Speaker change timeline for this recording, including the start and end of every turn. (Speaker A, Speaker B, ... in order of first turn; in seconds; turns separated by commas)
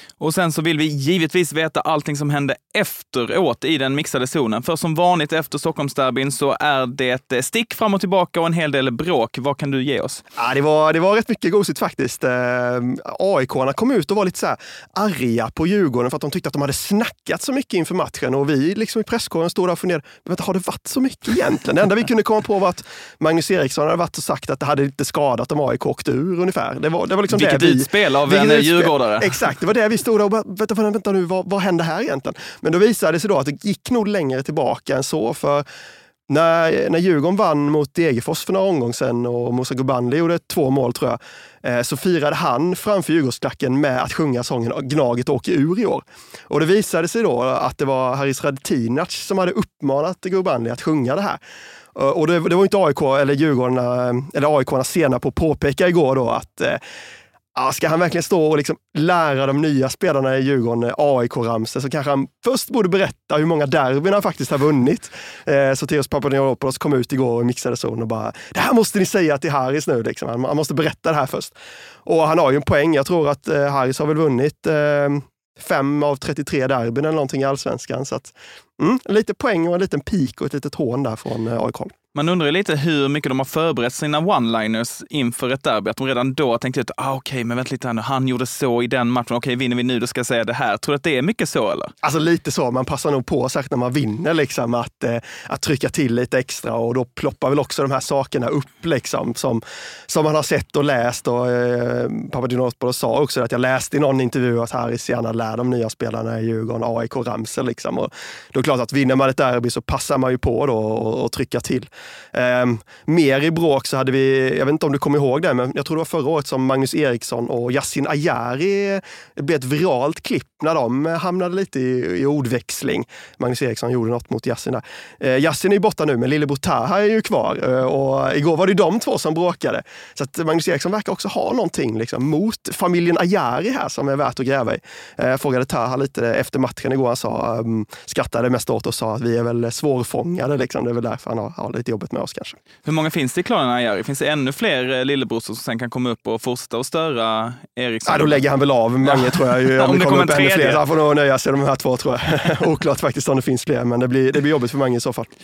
Speaker A: 0.2-10.2, Speaker B: 10.4-35.6, Speaker A: 27.3-29.4, Speaker B: 36.3-51.4, Speaker B: 51.9-56.8, Speaker B: 57.5-71.5, Speaker B: 72.0-81.9, Speaker A: 82.1-91.9, Speaker B: 92.0-142.6, Speaker A: 142.8-148.4, Speaker B: 148.1-155.3, Speaker A: 149.1-150.8